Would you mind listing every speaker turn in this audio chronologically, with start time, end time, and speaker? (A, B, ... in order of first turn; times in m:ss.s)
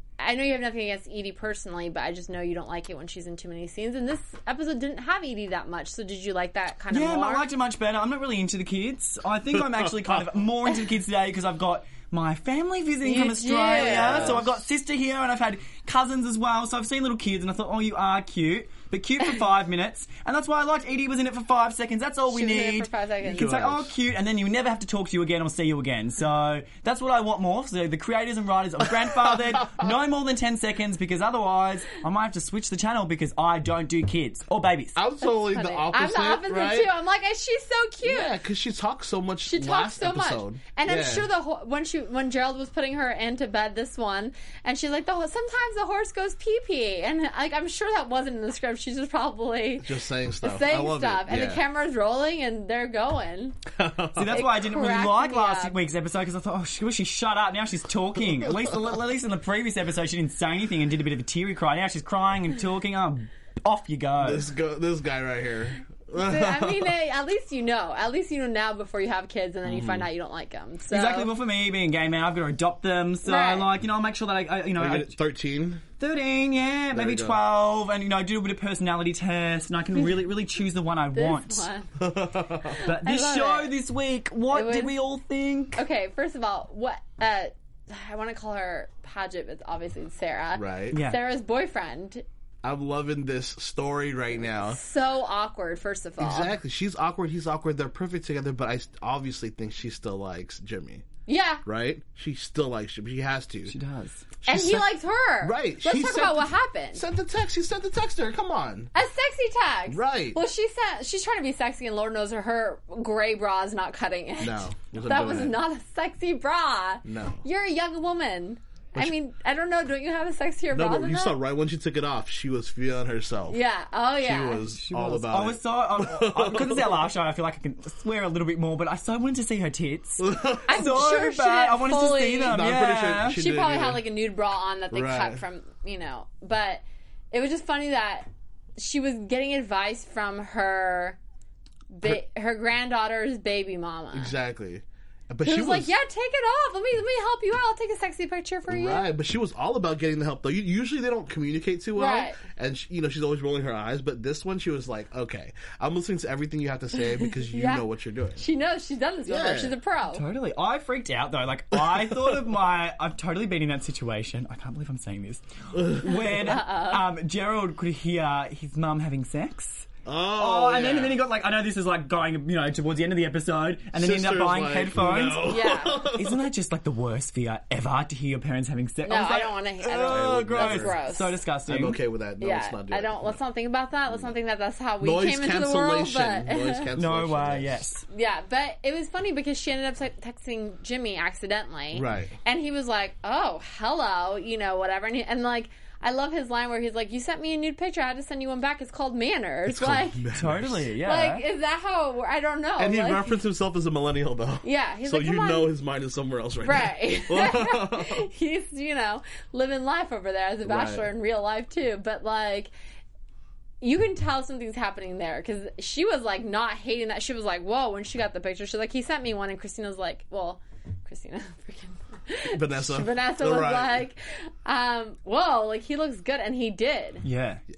0:00.2-0:07.5 A
0:06.9-0:35.0 B
0:13.0-0:14.4 A
0:13.7-0:14.6 C
0:22.3-0:23.5 A
0:23.2-0:24.0 C
0:35.0-0:36.9 C
0:35.2-0:38.3 A
0:38.0-0:41.3 C
0:39.4-0:53.6 A
0:49.8-0:51.6 C
0:53.7-0:54.4 C
0:54.2-1:04.5 B
0:54.2-0:55.8 A
1:04.2-1:06.9 C
1:06.1-1:11.3 A
1:09.6-1:10.1 C
1:10.9-1:15.1 B
1:13.2-1:13.7 A
1:14.8-1:15.8 C
1:16.0-1:21.7 B
1:16.9-1:17.4 C
1:19.9-1:20.2 A
1:21.1-1:23.7 A
1:22.0-1:22.7 C
1:22.8-1:25.8 B
1:24.5-1:25.0 A
1:25.7-1:32.2 A
1:30.5-1:31.0 C
1:30.9-1:31.2 B
1:32.6-1:34.8 C
1:34.5-1:36.5 A
1:36.2-1:41.0 C
1:41.2-1:41.6 A
1:41.6-1:43.8 C
1:43.7-1:44.3 B
1:44.4-1:48.9 C
1:44.4-1:47.0 A
1:48.9-2:01.4 A
1:49.9-1:50.4 C
1:54.4-1:55.6 C
1:57.0-1:57.4 C
2:00.7-2:03.6 C
2:03.5-2:04.6 A
2:04.2-2:07.0 C
2:04.7-2:13.4 B
2:10.2-2:10.8 C
2:10.6-2:12.6 A
2:12.4-2:14.0 C
2:13.3-2:21.2 A
2:14.9-2:15.4 C
2:21.9-2:24.3 A
2:24.1-2:25.9 C
2:25.4-2:29.1 A
2:28.7-2:38.4 C
2:31.9-2:32.4 A
2:36.9-2:37.8 A
2:38.4-2:40.2 A
2:39.3-2:39.7 C
2:40.1-2:55.5 B
2:41.7-2:42.4 C
2:45.7-2:46.2 C
2:46.3-2:47.1 A
2:50.0-2:51.2 C
2:53.9-2:56.4 C
2:55.4-2:56.1 A
2:56.1-3:02.0 B
2:59.0-3:01.4 A
3:00.0-3:00.9 C
3:01.7-3:03.3 C
3:02.4-3:06.9 A
3:04.1-3:04.3 C
3:05.0-3:07.8 C
3:06.9-3:08.0 B
3:08.0-3:20.3 A
3:11.9-3:12.4 C
3:19.6-3:20.9 C
3:20.3-3:21.4 B
3:20.9-3:23.4 A
3:22.8-3:28.2 C
3:24.6-3:25.7 A
3:26.6-3:32.7 A
3:30.6-3:31.1 C
3:33.8-3:47.2 A
3:42.5-3:44.1 C
3:47.2-3:47.6 B